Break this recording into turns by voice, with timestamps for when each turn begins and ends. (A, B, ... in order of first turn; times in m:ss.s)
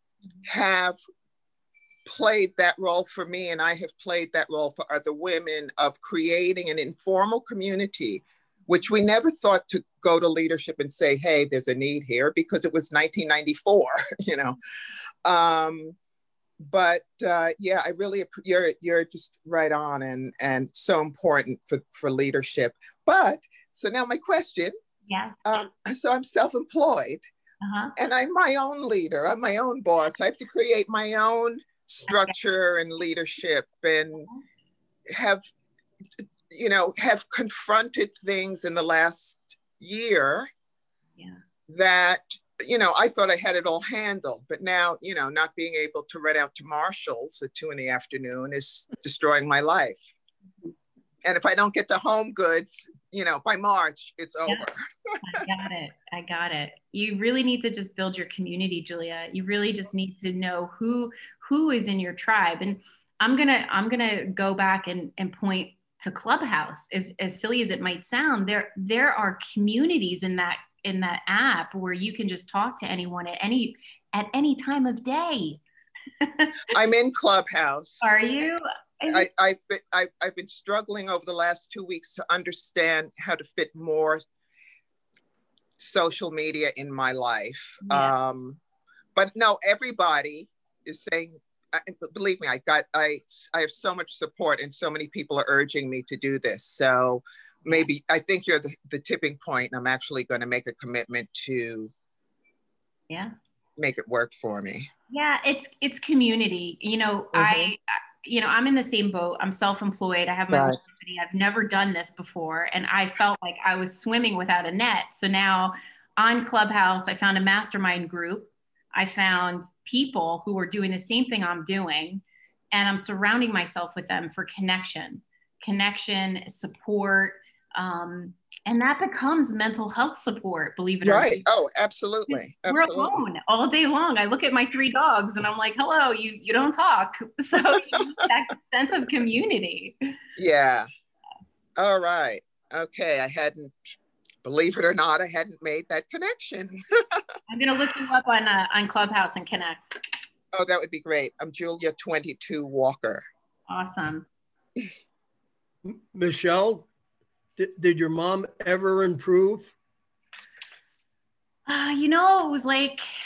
0:00.4-0:01.0 A
0:02.0-0:14.6 A
0:15.2-0:16.0 A
0:16.6-0:24.8 A
0:25.1-0:25.3 B
0:25.4-0:27.2 A
0:27.6-0:27.9 B
0:28.0-0:34.3 A
0:32.1-0:32.3 B
0:35.1-0:35.4 A
0:36.5-0:40.5 A
0:41.7-0:50.0 A
0:51.2-0:55.2 A
0:55.2-1:15.6 B
1:16.2-1:16.6 B
1:16.7-1:18.1 A
1:18.0-1:19.3 B
1:19.1-1:24.2 A
1:25.8-1:28.6 A
1:27.8-1:28.1 B
1:29.1-1:41.9 A
1:43.8-1:44.9 A
1:45.1-2:11.4 B
1:47.3-1:47.7 A
1:50.5-1:50.8 A
2:11.0-2:13.2 A
2:12.3-2:19.9 B
2:20.4-2:20.9 A
2:21.8-2:23.7 A
2:24.4-2:27.2 A
2:27.5-2:29.9 B
2:30.5-2:33.2 A
2:33.7-2:34.2 B
2:35.8-2:36.9 C
2:37.6-2:39.7 C
2:41.7-2:43.1 B